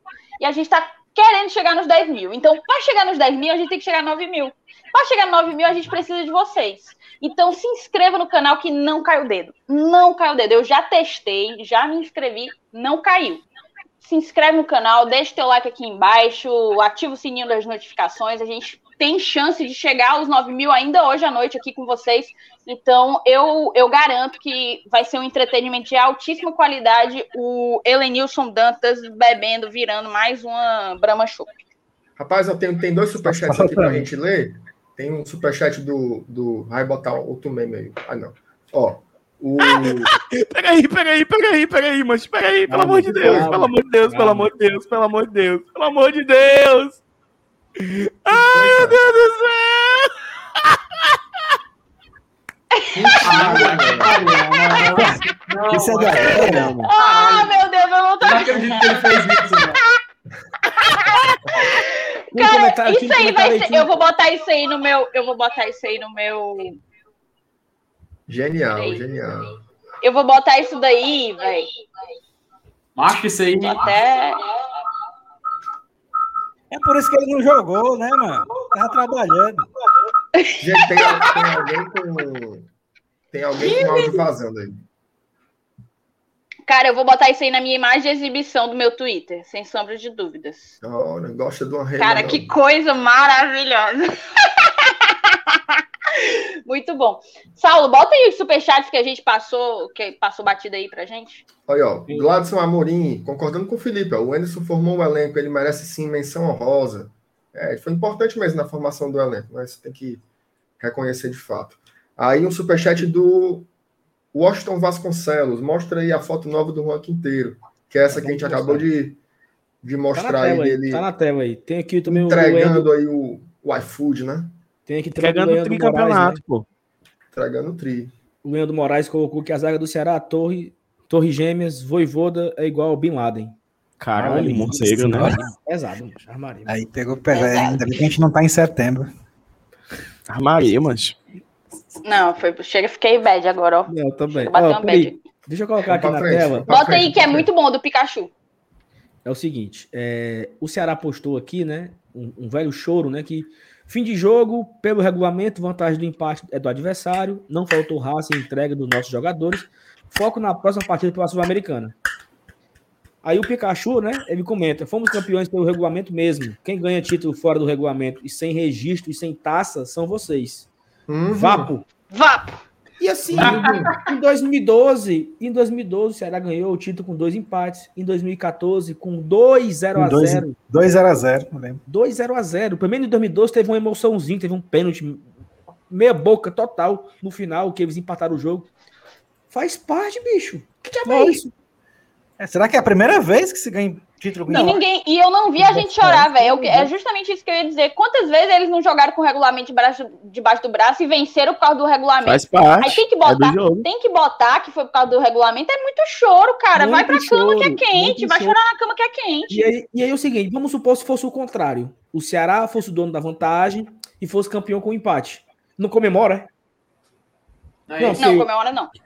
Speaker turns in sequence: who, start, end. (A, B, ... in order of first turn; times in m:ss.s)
0:00.4-0:13.4 A
0:14.0-0:31.5 A
0:32.2-0:40.1 B
0:33.3-0:34.1 C
0:39.7-0:47.0 D
0:42.7-0:44.5 E
0:42.8-0:43.5 B
0:47.8-0:50.1 D
0:50.6-0:51.2 D
0:52.7-0:53.1 A
0:52.9-0:54.2 B
0:53.2-0:57.5 F
0:54.9-0:56.8 C
0:56.5-0:56.9 D
0:56.8-0:59.1 A
0:58.2-0:59.8 F
1:00.8-1:06.8 A
1:02.3-1:03.9 E
1:08.3-1:09.6 B
1:08.8-1:09.0 A
1:10.0-1:11.7 A
1:13.0-1:14.0 F
1:13.6-1:14.4 A
1:16.7-1:19.7 C
1:20.3-1:21.4 A
1:20.6-1:22.7 B
1:23.3-1:24.8 B
1:23.6-1:24.2 A
1:26.7-1:30.7 A
1:30.8-1:32.4 B
1:32.0-1:41.4 A
1:41.7-1:50.2 B
1:42.1-1:42.4 E
1:50.8-1:53.7 B
1:54.3-1:59.2 B
1:58.1-1:58.9 E
1:59.8-2:01.0 B
2:00.1-2:02.9 E
2:02.1-2:04.5 B
2:04.8-2:06.4 E
2:05.2-2:06.6 D
2:07.3-2:08.1 B
2:08.4-2:13.5 E
2:14.0-2:15.4 D
2:14.1-2:16.7 E
2:14.7-2:15.4 C
2:16.7-2:19.1 C
2:17.3-2:17.8 A
2:20.3-2:21.2 D
2:22.0-2:25.2 A
2:23.9-2:26.7 E
2:25.8-2:27.5 B
2:26.7-2:28.3 A
2:29.2-2:42.0 E
2:43.2-2:50.7 E
2:51.1-2:51.7 B
2:51.3-2:51.8 E
2:52.1-2:52.6 A
2:53.0-3:00.6 E
2:53.3-2:53.9 B
2:53.4-2:53.6 A
2:59.9-3:01.8 C
3:01.9-3:05.2 E
3:05.9-3:08.7 E
3:09.5-3:11.5 E
3:10.9-3:11.4 A
3:12.4-3:14.8 C
3:14.5-3:29.7 A
3:15.8-3:16.9 E
3:22.2-3:23.9 D
3:26.7-3:28.6 E
3:29.5-3:36.5 E
3:37.9-3:38.2 F
3:38.0-3:38.5 E
3:38.2-3:38.9 A